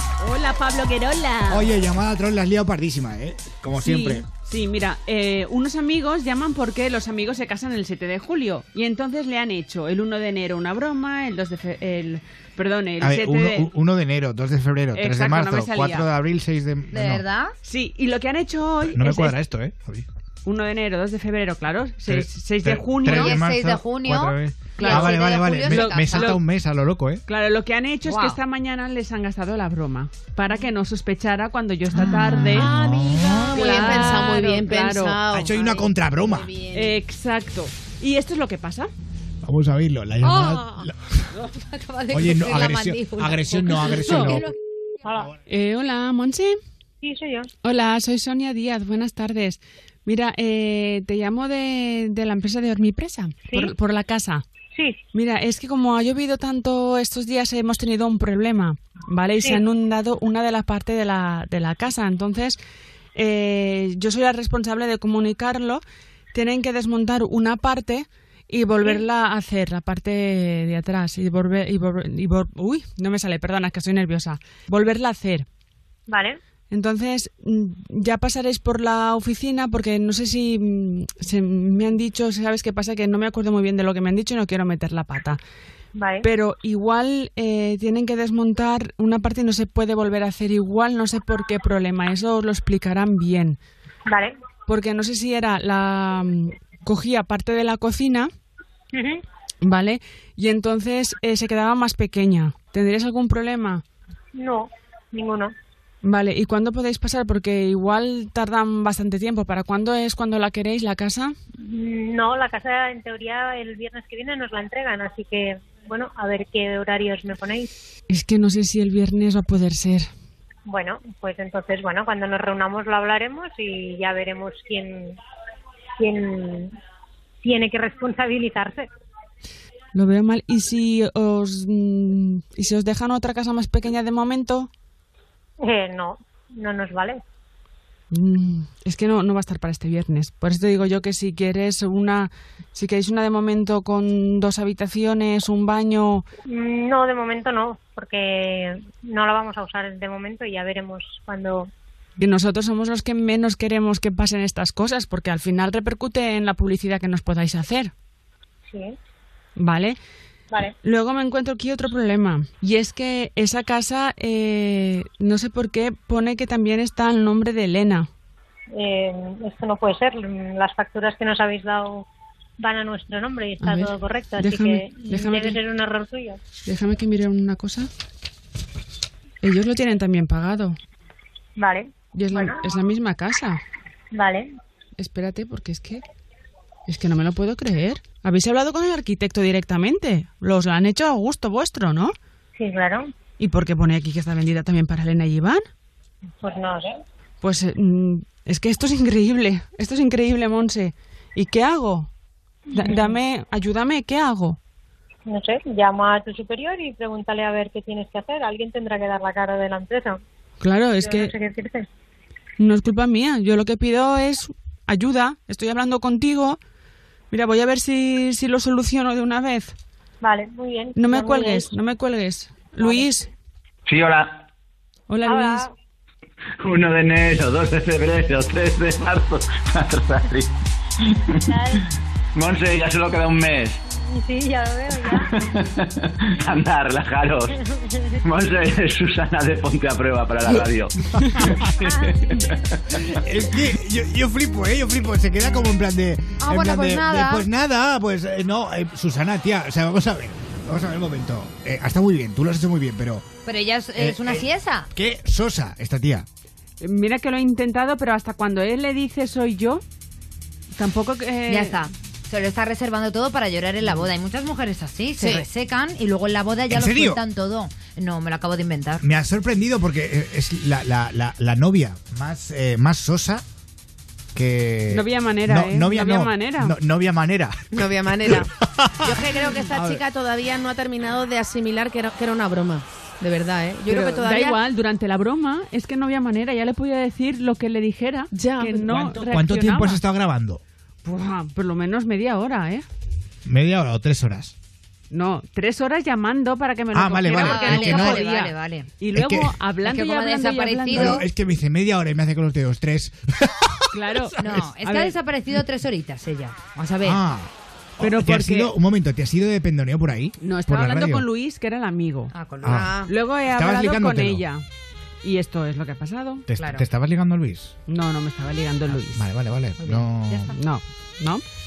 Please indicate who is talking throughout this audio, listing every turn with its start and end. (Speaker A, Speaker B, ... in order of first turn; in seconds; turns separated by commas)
Speaker A: 0.2-1.8, Speaker B: 1.5-4.3, Speaker A: 3.8-13.7, Speaker B: 13.0-17.2, Speaker A: 14.9-16.1, Speaker C: 16.9-17.6, Speaker A: 17.6-19.4, Speaker B: 18.8-20.1, Speaker A: 20.4-23.4, Speaker B: 22.1-27.2, Speaker C: 23.1-26.4, Speaker A: 24.8-26.4, Speaker A: 27.3-32.7, Speaker C: 28.1-28.4, Speaker B: 32.3-33.6, Speaker D: 32.6-35.5, Speaker C: 33.4-34.3, Speaker A: 33.5-35.2, Speaker B: 35.3-36.5, Speaker C: 35.5-36.9, Speaker A: 36.7-38.9, Speaker B: 39.4-41.4, Speaker C: 40.2-44.5, Speaker B: 42.1-44.5, Speaker A: 44.0-44.4, Speaker E: 45.0-45.3, Speaker A: 45.5-46.6, Speaker E: 47.0-47.5, Speaker A: 47.6-54.4, Speaker A: 55.1-62.6, Speaker A: 63.2-65.8, Speaker A: 66.3-75.5, Speaker E: 76.1-76.4, Speaker A: 76.7-85.4, Speaker E: 86.0-86.3, Speaker A: 86.2-93.6, Speaker E: 94.1-94.3, Speaker A: 94.7-98.3, Speaker E: 98.9-99.2, Speaker A: 99.6-103.8, Speaker E: 104.3-105.5, Speaker A: 106.0-111.3, Speaker E: 111.6-117.7, Speaker A: 118.1-120.1, Speaker E: 120.7-125.2, Speaker E: 126.0-126.8, Speaker E: 127.4-128.9, Speaker A: 129.9-134.7, Speaker E: 135.6-137.2, Speaker A: 138.1-146.2, Speaker E: 146.5-151.7, Speaker A: 152.2-157.9, Speaker E: 158.7-158.9, Speaker A: 159.6-160.0, Speaker A: 160.8-168.1, Speaker E: 168.7-172.1, Speaker E: 172.6-176.4, Speaker A: 173.6-175.6, Speaker A: 176.7-177.9, Speaker A: 179.4-180.8, Speaker E: 181.6-182.6, Speaker A: 182.1-183.6, Speaker E: 184.1-184.5, Speaker A: 185.0-186.0, Speaker A: 186.9-192.1, Speaker E: 192.6-193.1, Speaker A: 193.4-195.6, Speaker E: 196.4-197.0, Speaker A: 197.4-202.1, Speaker E: 202.7-203.2, Speaker A: 202.8-204.6, Speaker E: 205.3-210.2, Speaker A: 210.6-211.3, Speaker E: 211.0-211.9, Speaker A: 212.6-216.6, Speaker A: 217.3-219.8, Speaker E: 220.2-221.7, Speaker A: 221.0-223.3, Speaker E: 222.8-223.1, Speaker F: 223.9-224.5, Speaker A: 225.1-225.7, Speaker E: 225.2-225.7, Speaker F: 226.6-230.5, Speaker F: 231.1-231.8, Speaker E: 231.5-231.8, Speaker F: 232.3-233.8, Speaker E: 234.0-235.3, Speaker F: 235.1-237.6, Speaker E: 237.6-238.2, Speaker F: 238.2-243.1, Speaker B: 242.9-253.3, Speaker C: 246.4-247.5, Speaker C: 253.4-254.9, Speaker B: 254.0-256.3, Speaker A: 256.8-259.8, Speaker A: 260.8-261.8, Speaker C: 261.5-269.1, Speaker A: 265.2-265.5, Speaker B: 266.7-267.2, Speaker B: 269.0-273.4, Speaker B: 274.4-280.0, Speaker A: 274.9-276.8, Speaker D: 277.7-278.5, Speaker D: 279.1-284.6, Speaker A: 283.9-290.0, Speaker D: 288.3-289.0, Speaker B: 288.9-290.6, Speaker A: 291.0-292.9, Speaker B: 293.5-294.5, Speaker A: 295.1-301.2, Speaker B: 296.9-298.2, Speaker C: 297.3-298.9, Speaker B: 299.1-299.6, Speaker C: 299.8-301.3, Speaker B: 300.9-304.7, Speaker A: 303.9-305.2, Speaker C: 304.4-307.2, Speaker B: 307.0-311.3, Speaker A: 308.0-308.7, Speaker A: 310.4-314.6, Speaker C: 312.3-313.1, Speaker B: 312.6-314.4, Speaker A: 315.2-316.4, Speaker B: 316.5-317.7, Speaker C: 316.6-316.9, Speaker A: 317.9-319.2, Speaker B: 318.9-320.5, Speaker C: 319.8-320.6, Speaker A: 320.5-321.4